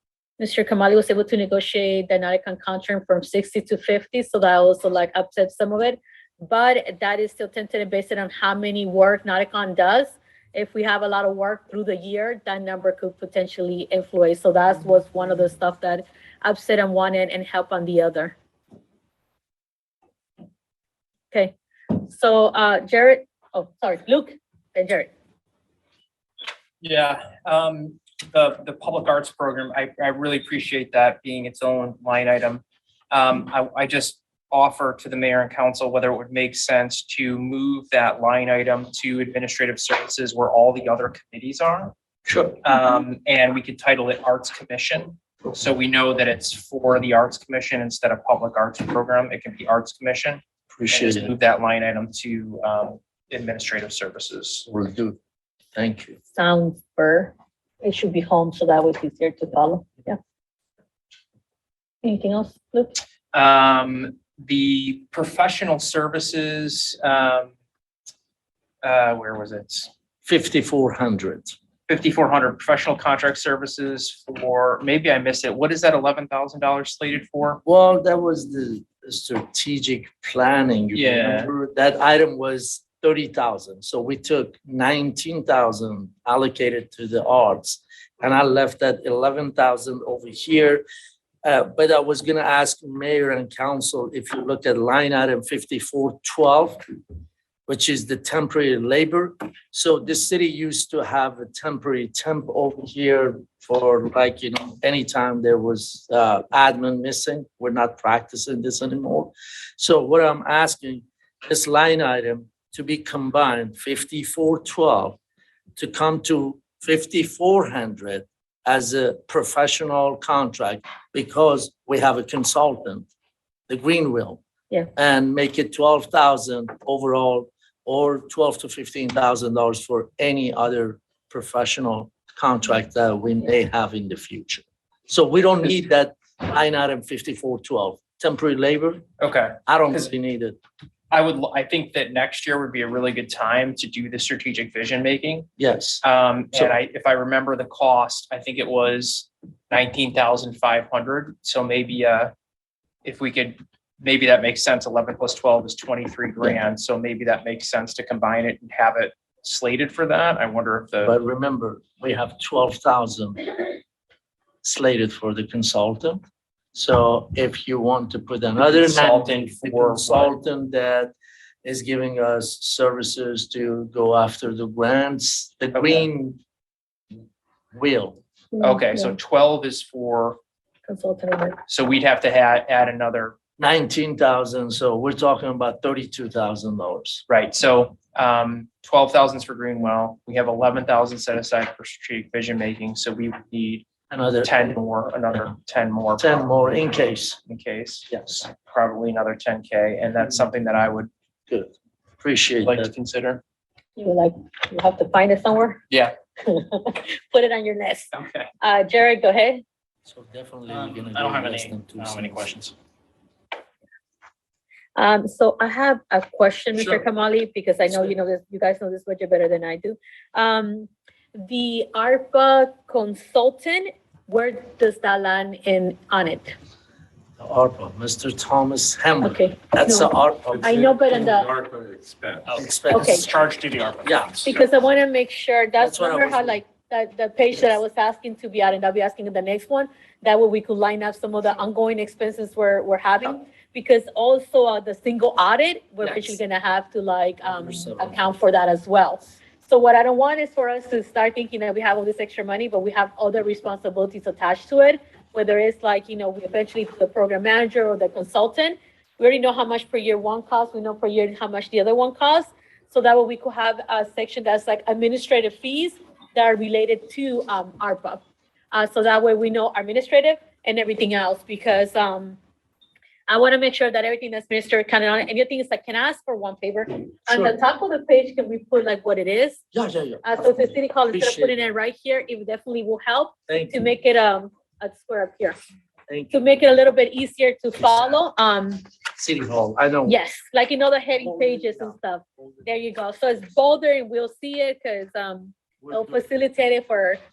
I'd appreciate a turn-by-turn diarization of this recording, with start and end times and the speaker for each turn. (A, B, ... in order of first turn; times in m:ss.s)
0:00.4-0:18.4 A
0:21.3-0:25.1 A
0:26.8-0:41.9 B
0:42.3-0:42.6 C
0:42.6-0:54.7 B
0:50.7-0:51.3 C
0:54.7-0:55.2 C
0:55.8-0:56.2 C
0:56.4-1:00.2 A
1:02.0-1:03.0 A
1:03.3-1:07.5 B
1:08.8-1:09.9 B
1:10.2-1:11.6 C
1:11.9-1:17.6 B
1:17.6-1:30.8 C
1:20.9-1:21.5 B
1:31.4-1:36.8 C
1:37.7-1:55.2 C
1:55.8-2:03.1 C
2:03.7-2:04.4 C
2:05.0-2:19.1 C
2:19.2-2:20.1 B
2:19.7-2:20.6 C
2:21.1-2:25.5 B
2:25.6-2:26.0 C
2:26.0-2:32.3 B
2:33.0-2:41.2 B
2:41.0-2:43.5 C
2:44.6-2:46.2 C
2:46.7-2:51.1 C
2:48.6-2:50.4 B
2:51.6-2:56.4 C
2:55.7-2:56.0 B
2:57.7-2:58.2 C
2:58.5-2:59.2 A
2:58.6-3:00.4 B
3:00.9-3:01.6 A
3:01.7-3:03.4 B
3:03.6-3:07.2 C
3:07.3-3:13.9 B
3:14.1-3:14.7 C
3:14.4-3:16.4 B
3:16.2-3:17.4 C
3:17.5-3:21.1 B
3:21.5-3:22.9 C
3:22.6-3:23.4 B
3:24.0-3:25.8 A
3:26.4-3:29.6 A
3:28.1-3:28.5 B
3:30.1-3:32.6 C
3:30.7-3:32.7 B
3:35.0-3:46.6 A
3:47.4-3:50.8 C
3:49.2-3:51.5 A
3:50.6-3:52.6 D
3:52.5-3:54.1 B
3:52.6-3:53.3 C
3:52.9-3:53.3 A
3:54.0-3:54.5 C
3:54.4-4:32.4 A
3:55.8-3:56.6 C
4:07.4-4:08.4 C
4:33.3-4:39.6 A
4:37.3-4:37.6 C
4:39.7-4:41.6 C
4:40.2-4:45.6 A
4:43.5-4:43.8 C
4:46.1-4:46.4 C
4:46.3-4:48.8 A
4:47.8-4:48.2 C
4:49.2-4:50.2 C
4:50.1-4:57.2 A
4:51.2-4:51.9 C
4:55.8-4:56.2 C